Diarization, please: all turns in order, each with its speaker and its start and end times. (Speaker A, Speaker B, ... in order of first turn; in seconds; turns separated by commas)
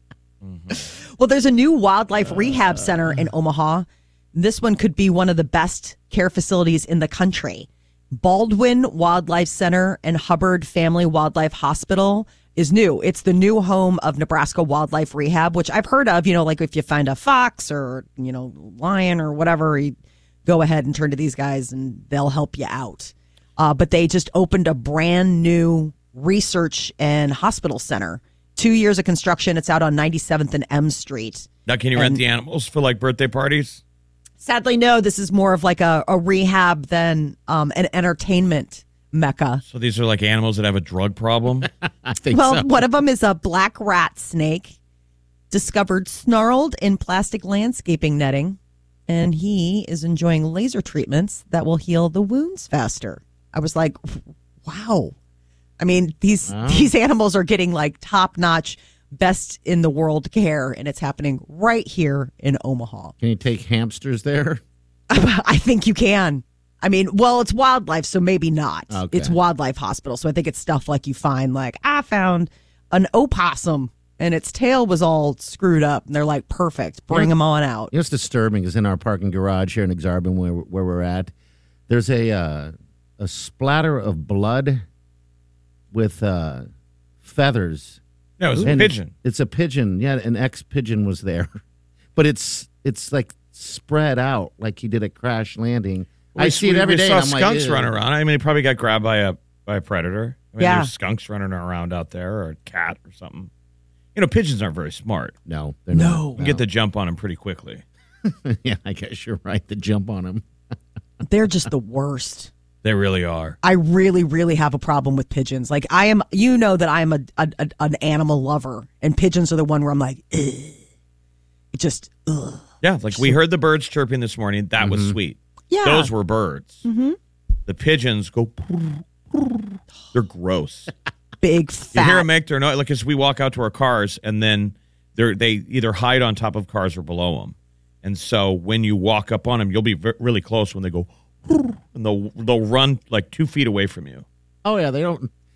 Speaker A: 0.4-0.7, Speaker B: 1.0-32.2, Speaker A: 31.7-33.8, Speaker B: 34.4-39.6, Speaker A: 39.7-41.7, Speaker C: 41.9-42.9, Speaker B: 42.3-44.7, Speaker B: 45.5-48.6, Speaker B: 49.1-55.1, Speaker B: 55.8-63.1, Speaker C: 56.5-56.9, Speaker C: 63.2-64.6, Speaker B: 65.1-77.9, Speaker C: 68.9-69.4, Speaker C: 77.9-81.3, Speaker C: 81.9-84.8, Speaker C: 85.9-86.7, Speaker C: 87.2-88.0, Speaker A: 88.4-89.1, Speaker C: 88.6-91.6, Speaker C: 92.2-97.9, Speaker A: 96.3-103.5, Speaker B: 100.6-100.9, Speaker A: 104.1-105.3, Speaker C: 105.5-106.6, Speaker B: 105.9-106.4, Speaker A: 106.4-107.8, Speaker C: 108.2-110.4, Speaker B: 111.2-112.5, Speaker A: 112.8-113.6, Speaker B: 113.6-120.8, Speaker B: 121.7-123.3, Speaker A: 122.8-126.8, Speaker C: 124.8-125.2, Speaker B: 125.7-126.1, Speaker B: 126.8-127.2, Speaker A: 127.7-129.6, Speaker A: 130.1-130.9, Speaker B: 131.4-132.3, Speaker A: 131.9-144.2, Speaker C: 144.6-145.3